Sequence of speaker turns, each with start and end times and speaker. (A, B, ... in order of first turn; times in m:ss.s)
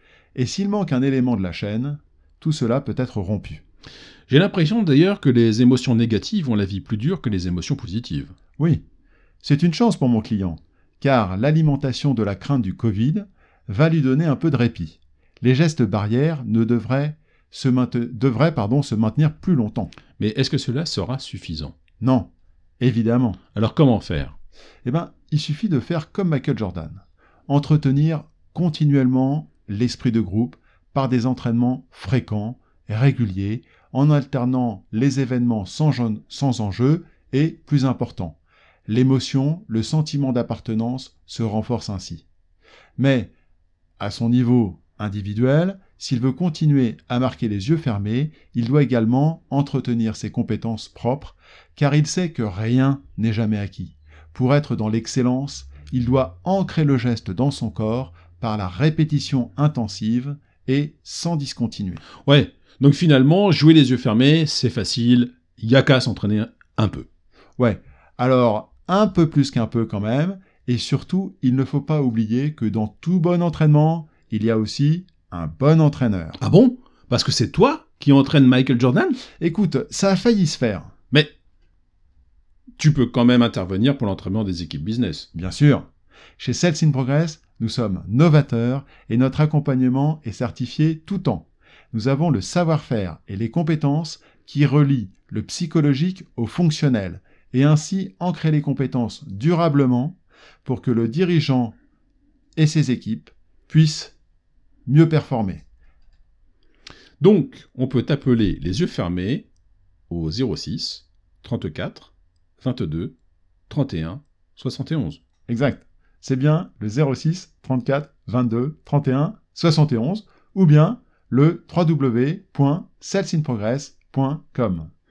0:00.4-0:03.6 A
0:04.3-0:08.3 B
0:08.6-0:08.8 A
0:09.4-0:19.9 A
0:20.2-0:21.8 B
0:22.0-0:23.4 A
0:23.5-0:24.4 B
0:24.8-0:42.2 A
0:43.0-0:43.3 A
0:44.0-1:02.0 A
1:02.2-1:07.1 B
1:07.6-1:16.4 A
1:16.4-1:19.2 B
1:19.4-1:20.9 A
1:22.8-1:25.3 B
1:25.4-1:25.9 A
1:26.4-1:41.8 A
1:42.6-1:44.2 A
1:44.9-1:45.6 A
1:47.2-1:49.5 B
1:50.1-1:53.2 B
1:53.7-1:55.2 B
1:55.5-2:04.9 A